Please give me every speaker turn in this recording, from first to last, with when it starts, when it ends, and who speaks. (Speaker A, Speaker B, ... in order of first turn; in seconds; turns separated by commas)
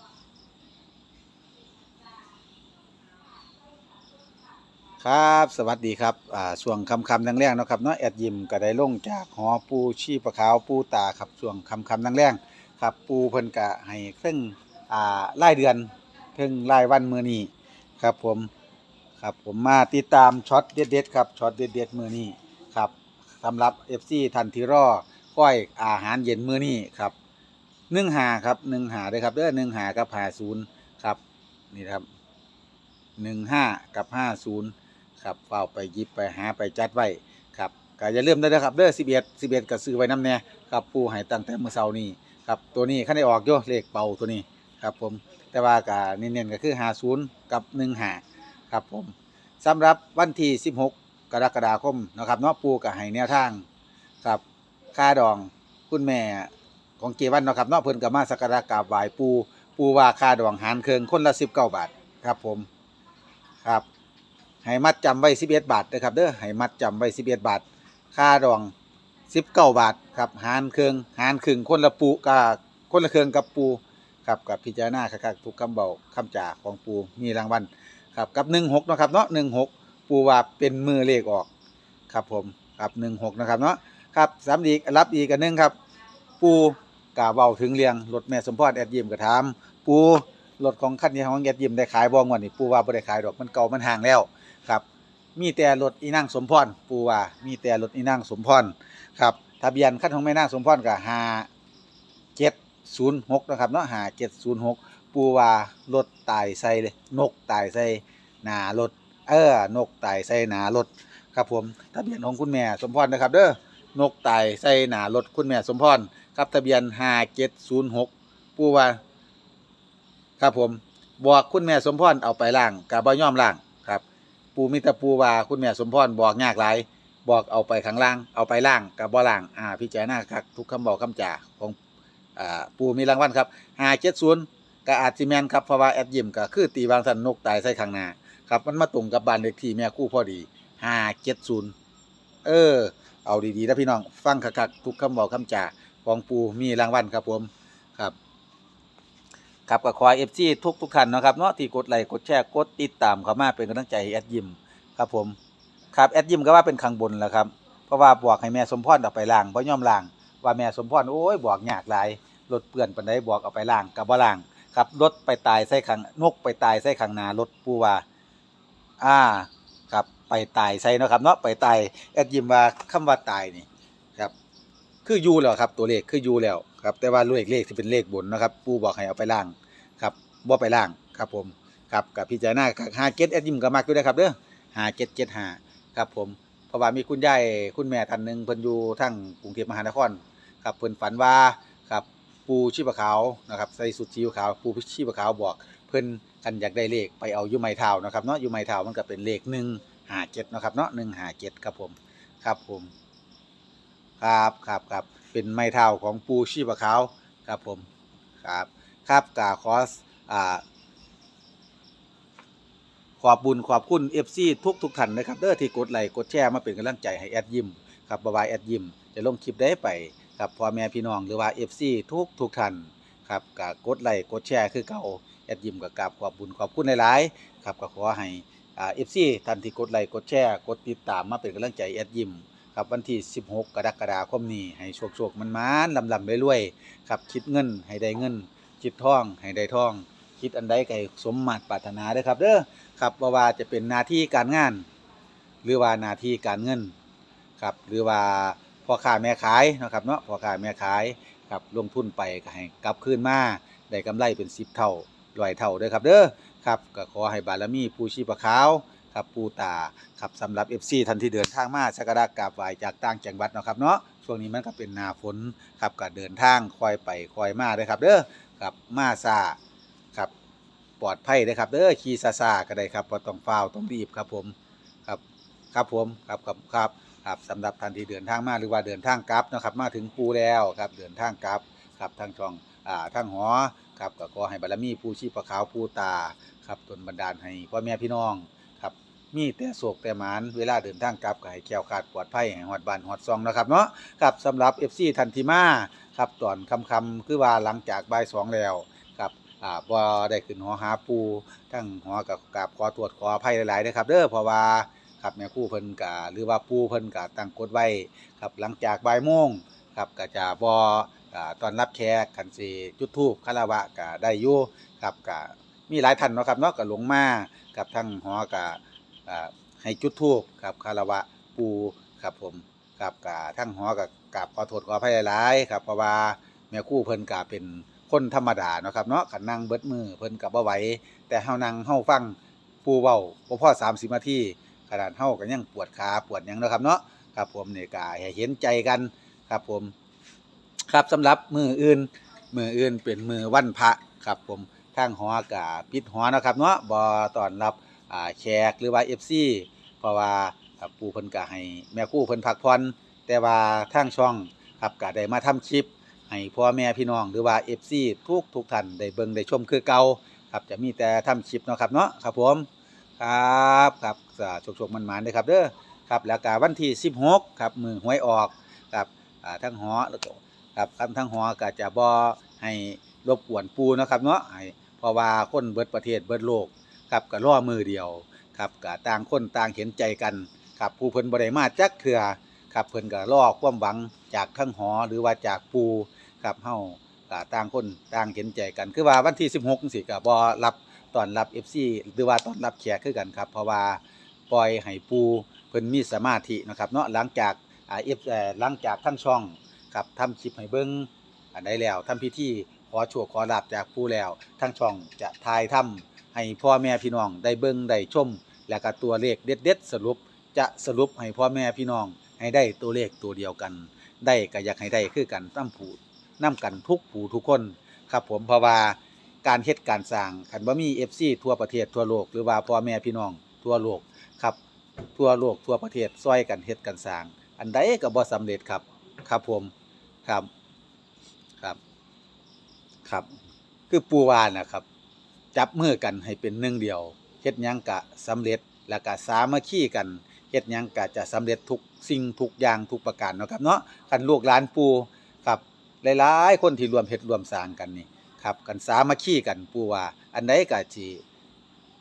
Speaker A: 5.0-18.5, Speaker A: 19.2-27.1, Speaker A: 27.9-31.2, Speaker A: 31.7-32.1, Speaker A: 33.2-53.7, Speaker A: 54.9-62.7, Speaker A: 64.6-68.7, Speaker A: 69.3-81.5, Speaker A: 82.1-85.8, Speaker A: 86.4-94.8, Speaker A: 95.4-101.5, Speaker A: 102.4-119.0, Speaker A: 120.4-124.0, Speaker A: 124.5-131.8, Speaker A: 132.4-141.7, Speaker A: 142.4-148.2, Speaker A: 149.7-155.4, Speaker A: 155.9-168.1, Speaker A: 169.0-174.3, Speaker A: 175.1-202.9, Speaker A: 204.2-207.9, Speaker A: 208.4-210.6, Speaker A: 213.2-244.9, Speaker A: 245.6-246.9, Speaker A: 247.6-269.6, Speaker A: 271.0-274.6, Speaker A: 275.7-339.9, Speaker A: 340.9-362.7, Speaker A: 363.2-424.6, Speaker A: 425.1-429.7, Speaker A: 433.1-433.4, Speaker A: 433.9-434.9, Speaker A: 435.5-451.2